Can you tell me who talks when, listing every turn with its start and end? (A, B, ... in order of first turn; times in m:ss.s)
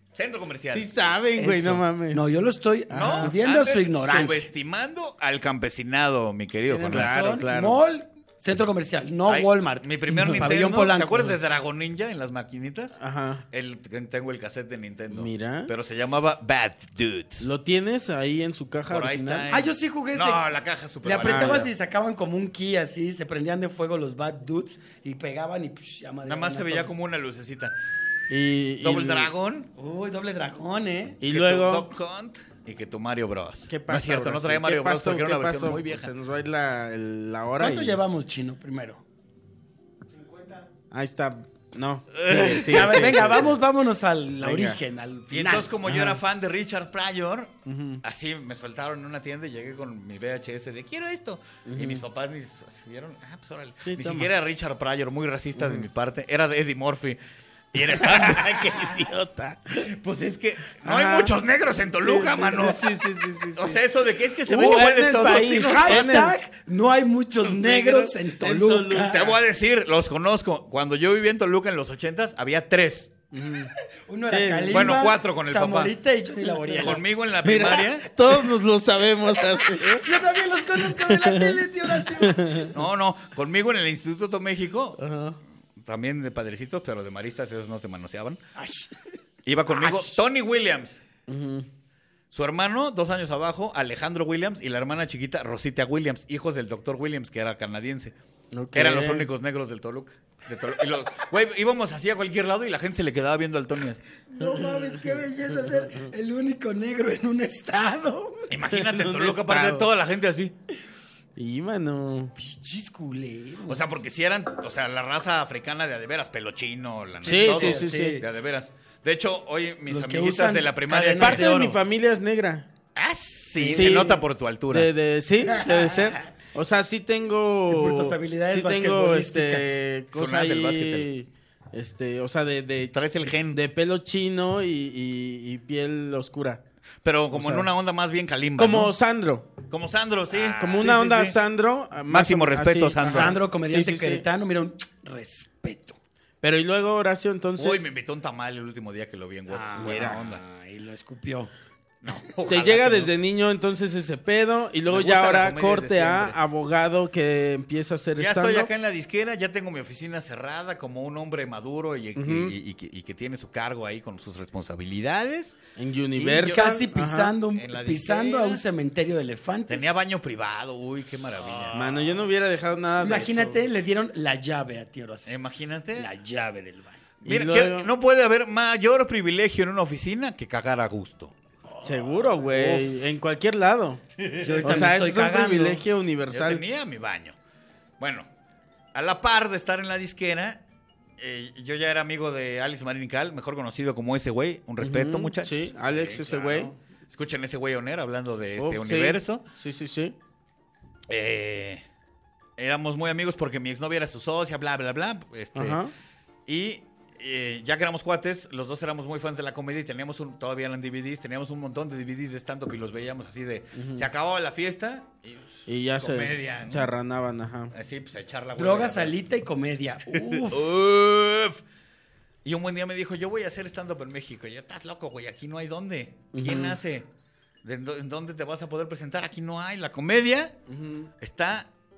0:00.2-0:00.9 A
0:00.7-0:02.3 B
0:01.4-0:04.5 C
0:02.9-0:03.3 B
0:02.9-0:07.2 A
0:06.7-0:11.3 C
0:06.9-0:07.8 B
0:09.2-0:13.0 A
0:10.1-0:10.5 B
0:13.0-0:13.4 B
0:13.5-0:17.5 A
0:15.1-0:15.7 B
0:17.4-0:19.5 B
0:18.9-0:21.7 A
0:19.5-0:20.4 C
0:21.0-0:26.9 C
0:21.2-0:21.7 B
0:26.2-0:27.7 A
0:28.3-0:29.3 B
0:28.8-0:29.7 A
0:29.8-0:31.2 C
0:31.2-0:31.9 B
0:31.2-0:36.1 A
0:33.7-0:38.0 B
0:37.6-0:39.0 C
0:40.9-0:43.5 B
0:42.1-0:43.3 A
0:42.3-0:45.7 C
0:44.4-0:44.8 B
0:45.3-0:57.2 A
0:45.8-0:46.2 B
0:47.6-0:48.0 B
0:51.6-0:52.0 B
0:53.8-0:54.3 B
0:55.6-0:55.9 B
0:57.7-0:59.1 A
0:57.7-0:59.8 B
0:59.8-1:03.0 A
1:00.8-1:01.4 B
1:01.9-1:03.8 B
1:03.5-1:06.3 A
1:04.4-1:06.3 B
1:04.5-1:09.3 C
1:07.4-1:09.4 B
1:09.1-1:13.1 A
1:13.3-1:13.7 B
1:14.1-1:17.0 C
1:14.2-1:15.0 B
1:14.7-1:15.9 A
1:16.4-1:20.1 B
1:16.8-1:18.1 A
1:19.9-1:22.7 C
1:20.8-1:22.7 B
1:22.7-1:25.0 A
1:25.0-1:25.4 B
1:25.8-1:28.4 A
1:28.6-1:28.9 C
1:29.4-1:31.0 A
1:29.7-1:30.2 C
1:31.3-1:31.7 B
1:32.3-1:38.1 A
1:38.5-1:39.3 B
1:38.7-1:44.0 A
1:44.3-1:48.5 C
1:44.4-1:44.9 B
1:48.5-1:50.5 A
1:48.6-1:49.9 B
1:51.4-1:52.3 B
1:52.4-1:53.8 C
1:53.7-2:01.5 A
1:57.2-1:58.2 B
1:57.2-1:58.2 C
1:59.9-2:01.8 C
2:01.2-2:02.7 B
2:03.0-2:04.9 A
2:03.6-2:04.1 C
2:03.7-2:16.6 B
2:07.7-2:09.8 C
2:10.1-2:11.1 A
2:12.9-2:13.6 A
2:17.0-2:18.9 A
2:17.3-2:17.7 B
2:18.6-2:19.5 B
2:19.7-2:21.3 A
2:20.4-2:20.9 C
2:20.5-2:24.2 B
2:22.1-2:23.4 A
2:23.0-2:26.0 C
2:26.4-2:27.9 B
2:27.6-2:30.4 A
2:29.5-2:31.5 C
2:29.8-2:30.2 B
2:32.0-2:33.1 A
2:32.5-2:38.7 B
2:34.9-2:36.4 A
2:38.2-2:45.6 A
2:42.2-2:42.5 B
2:45.8-2:47.3 B
2:46.2-2:46.7 A
2:46.2-2:50.0 C
2:47.5-2:48.6 A
2:49.7-2:51.7 A
2:51.4-2:52.0 C
2:51.7-2:53.6 B
2:53.0-2:55.3 C
2:55.2-2:56.1 A
2:56.0-2:57.0 C
2:57.2-2:57.9 B
2:57.2-3:01.3 A
3:01.8-3:04.0 B
3:02.5-3:02.9 A
3:04.2-3:04.9 A
3:04.4-3:05.8 C
3:04.6-3:06.6 B
3:06.3-3:07.4 A
3:08.0-3:08.3 A
3:08.9-3:10.6 A
3:11.2-3:19.4 A
3:14.8-3:16.7 B
3:18.6-3:20.2 B
3:21.1-3:21.8 A
3:22.6-3:25.8 A
3:25.5-3:25.9 B
3:26.5-3:36.9 A
3:33.7-3:34.1 B
3:35.7-3:37.7 B
3:37.7-3:39.2 A
3:38.6-3:40.7 C
3:40.1-3:41.6 A
3:42.4-3:47.0 A
3:46.3-3:46.8 B
3:47.6-3:50.6 A
3:50.7-3:51.1 B
3:51.2-3:51.7 A